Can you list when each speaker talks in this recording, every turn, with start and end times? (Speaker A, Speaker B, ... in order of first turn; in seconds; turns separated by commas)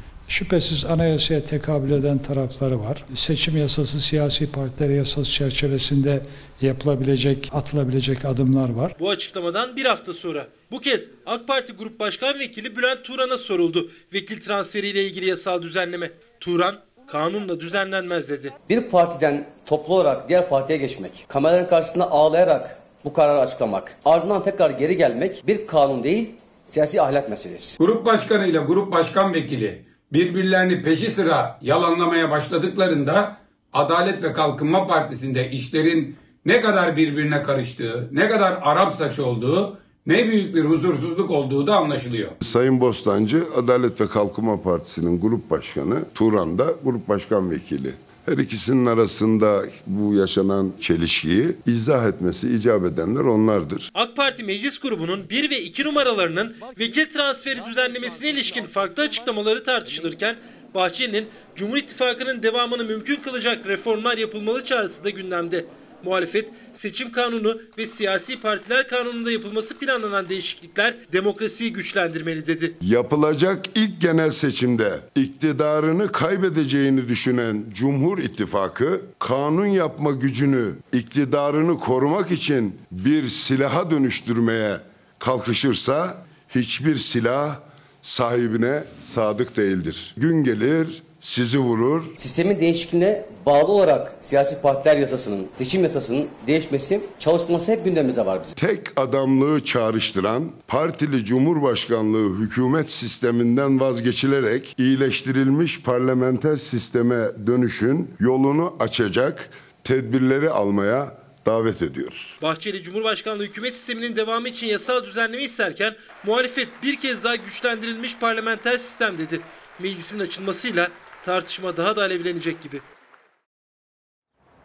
Speaker A: 0.3-8.9, Speaker B: 9.0-18.5, Speaker C: 18.7-27.8, Speaker D: 27.8-42.3, Speaker E: 42.4-53.9, Speaker B: 53.9-72.7, Speaker E: 72.8-92.2, Speaker C: 92.2-98.5, Speaker E: 98.6-112.4, Speaker B: 112.4-122.8